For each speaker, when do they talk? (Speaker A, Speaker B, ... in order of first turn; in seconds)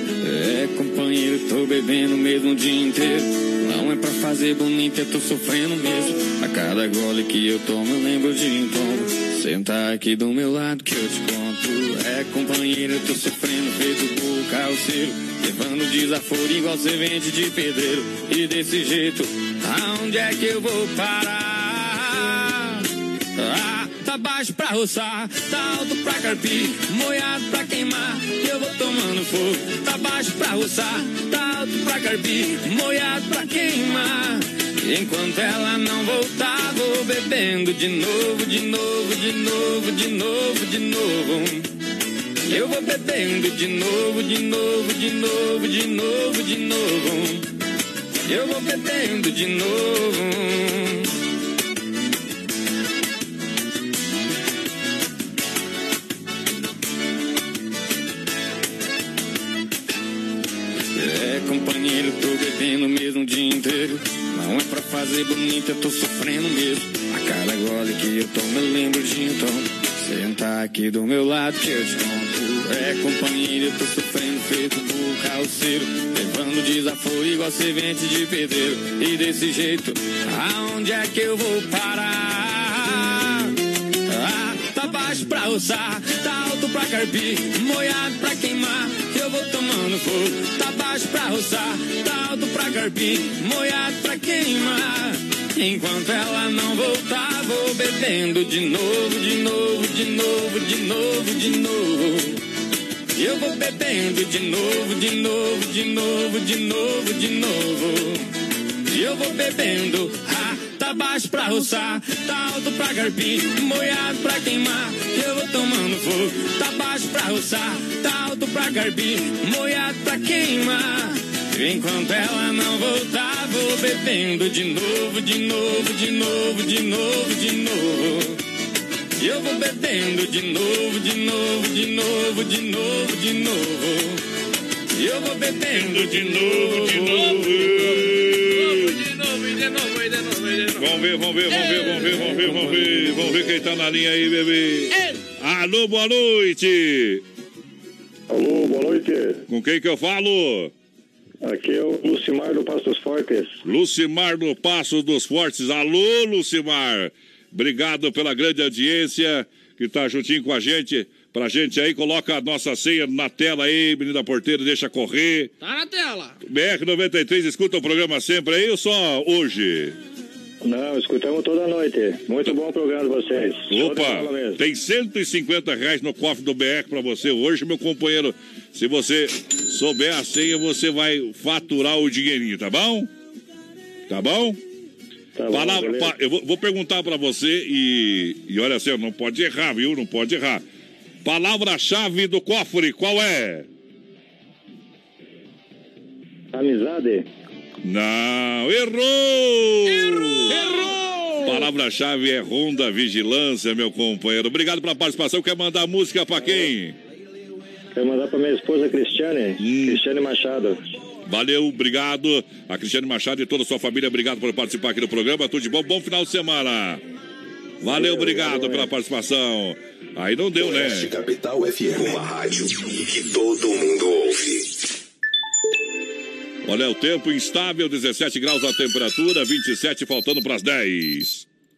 Speaker A: 0.2-22.9, 23.4-41.7, 42.5-47.5, 48.3-51.1, 60.9-83.5, 84.1-102.4, 103.2-108.3, 108.9-128.4, 129.2-134.2, 135.0-137.2
Speaker B: 135.7-138.9, 140.8-147.2, 149.5-150.7, 153.6-165.5, 166.4-169.9, 173.7-183.1, 184.1-184.6, 185.5-190.6, 191.2-193.7, 197.8-200.6, 201.4-206.9, 209.6-210.0, 211.2-217.0, 217.8-221.1, 226.6-231.4
Speaker C: 136.9-142.5, 144.9-145.2, 165.6-166.3, 199.9-201.7
Speaker D: 148.3-149.4, 151.4-153.5, 170.6-174.6, 185.4-186.1, 196.5-197.2, 207.9-210.8, 218.0-218.8
Speaker E: 220.6-224.7